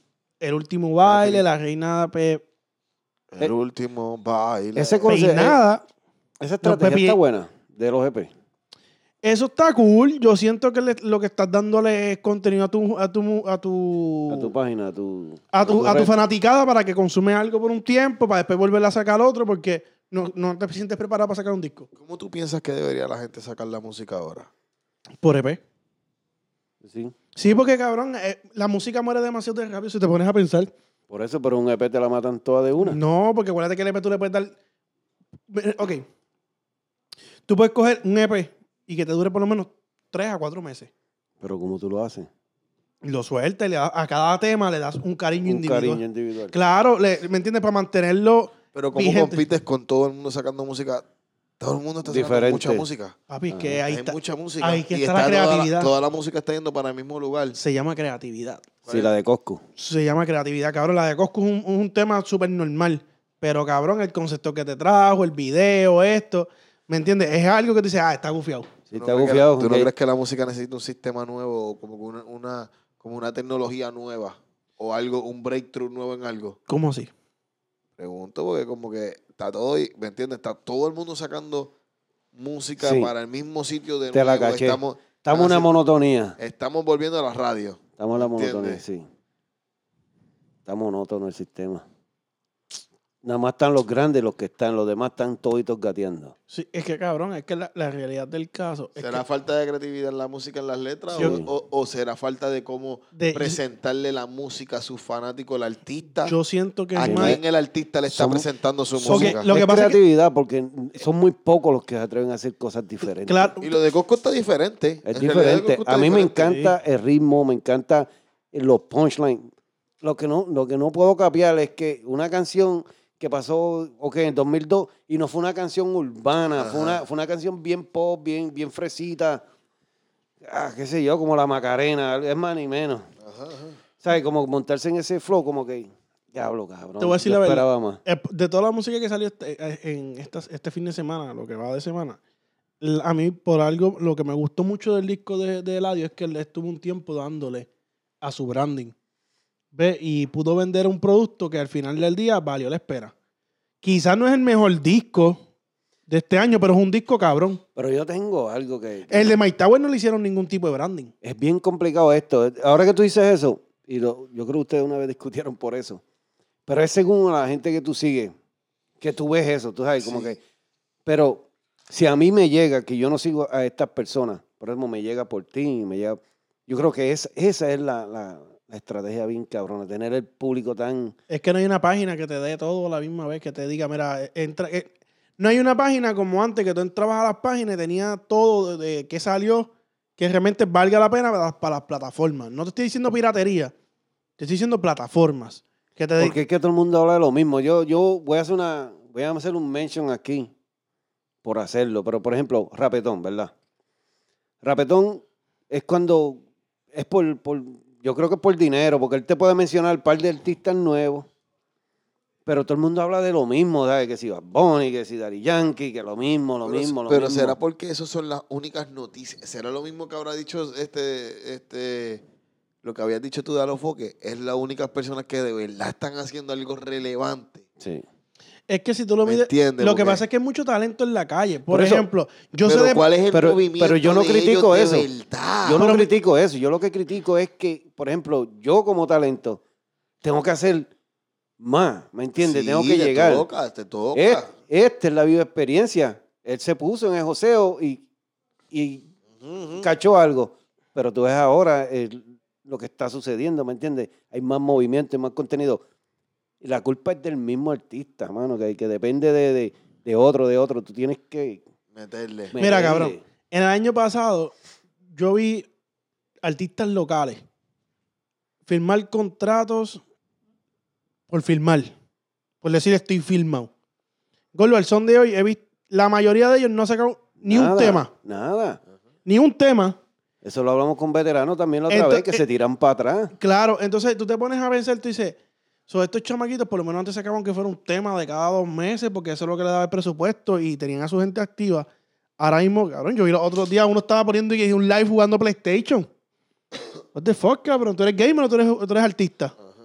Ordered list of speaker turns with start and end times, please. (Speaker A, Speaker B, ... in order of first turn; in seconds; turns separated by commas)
Speaker A: 0.4-2.4, Speaker B: 1.1-1.4, Speaker B: 3.3-5.2, Speaker C: 4.8-5.6, Speaker A: 5.1-5.8, Speaker C: 6.4-8.3, Speaker A: 6.6-7.2, Speaker A: 9.2-14.5, Speaker C: 14.3-16.1, Speaker A: 15.5-21.9, Speaker B: 22.0-24.5, Speaker A: 25.2-25.6, Speaker C: 26.8-27.1, Speaker A: 27.4-30.7, Speaker C: 31.1-33.0, Speaker A: 32.8-34.5, Speaker A: 35.5-36.1, Speaker A: 37.5-40.9, Speaker C: 41.4-42.3, Speaker A: 43.0-49.5, Speaker C: 45.4-46.5, Speaker B: 48.7-51.0, Speaker B: 51.6-53.2, Speaker C: 52.0-52.9, Speaker A: 53.3-55.9, Speaker C: 53.5-53.8, Speaker B: 53.9-57.6, Speaker A: 57.6-58.6, Speaker B: 58.9-59.1, Speaker C: 58.9-59.6, Speaker A: 59.8-68.7, Speaker C: 68.9-69.9, Speaker B: 69.0-76.6, Speaker A: 76.7-77.1, Speaker B: 78.0-81.7, Speaker B: 82.3-85.7, Speaker C: 82.8-83.1, Speaker C: 84.1-86.4, Speaker B: 86.4-88.8, Speaker C: 88.0-89.1, Speaker C: 90.7-91.8, Speaker C: 93.2-96.3, Speaker A: 96.5-99.2, Speaker B: 99.0-106.3, Speaker C: 101.1-101.5, Speaker A: 103.2-103.6, Speaker A: 106.3-107.4, Speaker B: 107.0-109.5, Speaker C: 107.0-107.4, Speaker C: 108.1-113.5, Speaker A: 109.1-110.0, Speaker A: 113.1-113.8, Speaker B: 113.6-116.6, Speaker C: 115.0-119.5, Speaker A: 116.5-116.7, Speaker C: 120.0-129.4, Speaker B: 126.6-127.0, Speaker C: 130.4-133.1, Speaker B: 133.2-133.8, Speaker C: 134.0-138.0, Speaker A: 137.0-142.2, Speaker A: 142.8-147.7, Speaker A: 148.2-148.9, Speaker A: 149.7-153.1, Speaker A: 153.8-155.4, Speaker A: 156.1-157.6, Speaker C: 157.8-159.4, Speaker A: 159.1-161.1, Speaker C: 161.2-166.0, Speaker C: 166.7-168.3, Speaker C: 169.0-170.4, Speaker B: 170.0-170.4, Speaker C: 171.1-181.2, Speaker A: 181.3-193.7, Speaker A: 194.4-196.4, Speaker C: 196.2-200.5, Speaker C: 201.4-203.5, Speaker C: 204.6-206.4, Speaker C: 206.9-211.3, Speaker C: 212.5-217.6, Speaker B: 216.7-222.2, Speaker B: 222.8-227.7, Speaker A: 228.7-233.0, Speaker B: 229.2-230.2, Speaker C: 231.7-232.1, Speaker B: 232.6-235.8, Speaker C: 233.3-235.1, Speaker C: 235.6-239.6, Speaker A: 235.8-236.1, Speaker C: 240.2-240.9, Speaker C: 241.6-243.5, Speaker B: 242.4-244.5, Speaker C: 244.1-248.0, Speaker C: 248.7-249.1, Speaker B: 249.4-249.9, Speaker C: 249.8-255.8, Speaker C: 256.6-261.6, Speaker B: 261.9-262.6, Speaker C: 262.5-263.2, Speaker A: 262.6-264.5, Speaker A: 265.1-265.7, Speaker A: 266.4-267.4, Speaker A: 268.7-270.0, Speaker A: 271.3-271.9, Speaker A: 272.6-273.7, Speaker A: 274.6-278.1, Speaker C: 277.4-278.8, Speaker A: 279.3-280.0, Speaker C: 280.4-283.3, Speaker A: 281.9-282.4, Speaker A: 283.4-285.4, Speaker A: 285.9-291.9, Speaker A: 292.4-296.1, Speaker A: 297.1-299.6